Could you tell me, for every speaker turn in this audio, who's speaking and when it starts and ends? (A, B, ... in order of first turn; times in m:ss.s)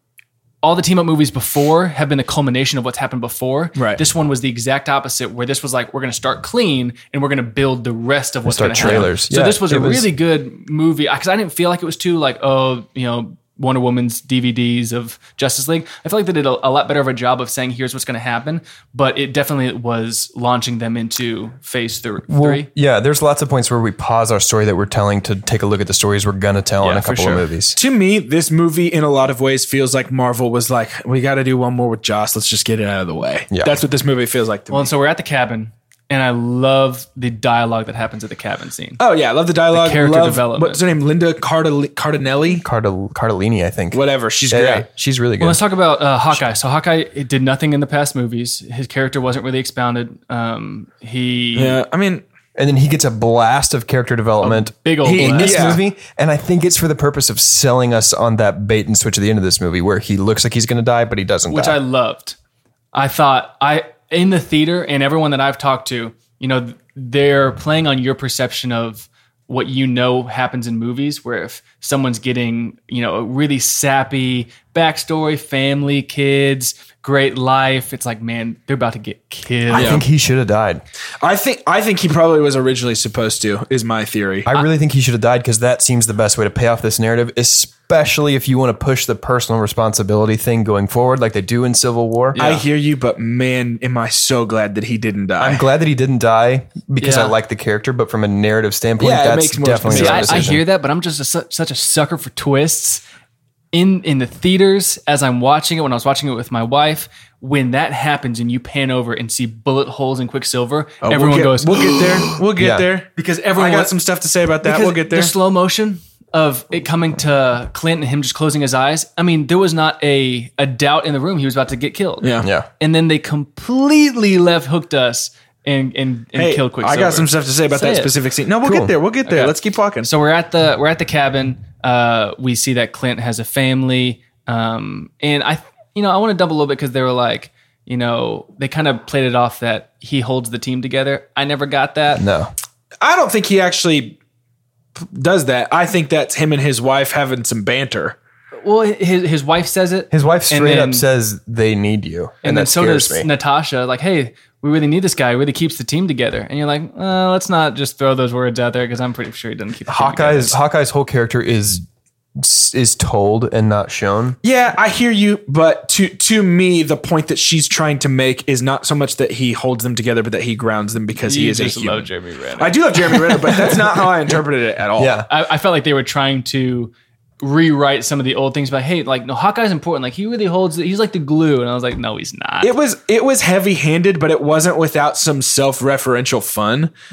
0:00.6-0:22.7 A
0:03.8-0:04.0 B
0:08.4-0:10.1 C
0:08.8-0:09.1 B
0:22.3-0:27.8 C
0:26.8-0:27.4 A
0:27.7-0:34.9 B
0:34.7-0:39.0 A
0:39.0-0:42.6 B
0:39.7-0:40.8 A
0:42.6-0:45.6 C
0:43.9-0:44.8 B
0:45.4-0:51.8 A
0:51.6-0:52.2 B
0:52.6-1:01.8 C
0:54.4-0:55.8 A
0:55.0-0:55.8 B
1:01.5-1:02.4 A
1:02.9-1:20.0 A
1:19.7-1:20.8 C
1:19.7-1:20.0 B
1:21.2-1:24.5 B
1:24.4-1:32.4 C
1:32.3-1:32.6 A
1:32.4-1:35.6 B
1:35.4-1:40.6 C
1:37.0-1:37.3 A
1:39.0-1:40.5 B
1:39.9-1:43.0 A
1:43.7-1:52.1 A
1:51.0-1:55.3 B
1:52.6-1:52.8 C
1:53.2-1:53.9 A
1:54.6-2:08.1 A
2:02.2-2:02.5 B
2:02.4-2:02.7 C
2:06.4-2:10.1 B
2:08.6-2:08.9 C
2:09.2-2:22.2 A
2:22.1-2:22.5 C
2:23.0-2:24.2 B
2:25.0-2:28.2 B
2:28.6-2:31.0 A
2:30.1-2:33.3 C
2:32.4-2:40.6 A
2:39.9-2:41.8 C
2:42.4-2:44.4 C
2:44.4-2:55.2 B
2:51.2-2:53.7 A
2:55.0-2:55.3 C
2:55.3-3:02.7 A
3:02.6-3:06.9 B